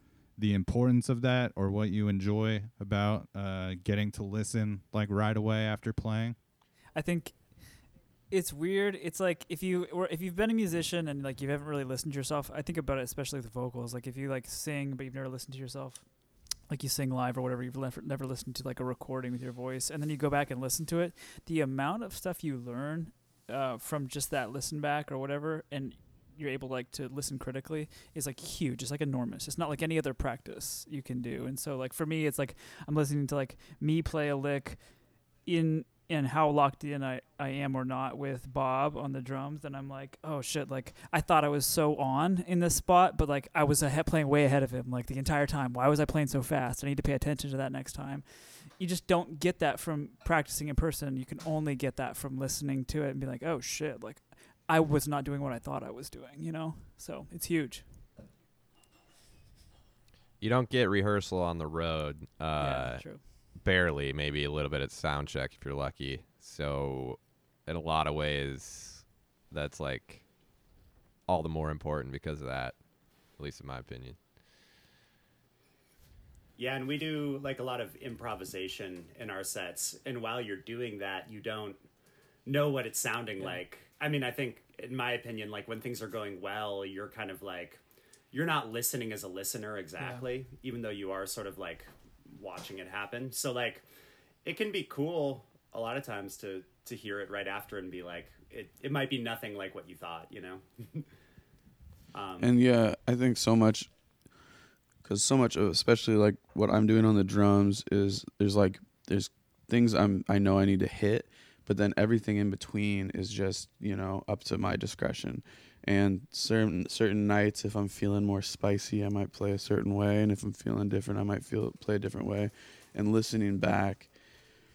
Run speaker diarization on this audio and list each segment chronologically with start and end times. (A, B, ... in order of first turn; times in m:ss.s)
0:00.4-0:06.4 A
0:06.9-0:57.9 B
1:00.4-1:10.3 C
1:02.6-1:03.5 B
1:11.3-1:14.2 C
1:16.6-1:21.8 D
1:22.5-1:27.8 D
1:28.3-1:33.9 D
1:30.0-1:30.3 B
1:34.4-1:41.0 D
1:42.1-1:42.5 D
1:42.4-1:43.9 E
1:45.0-2:04.1 E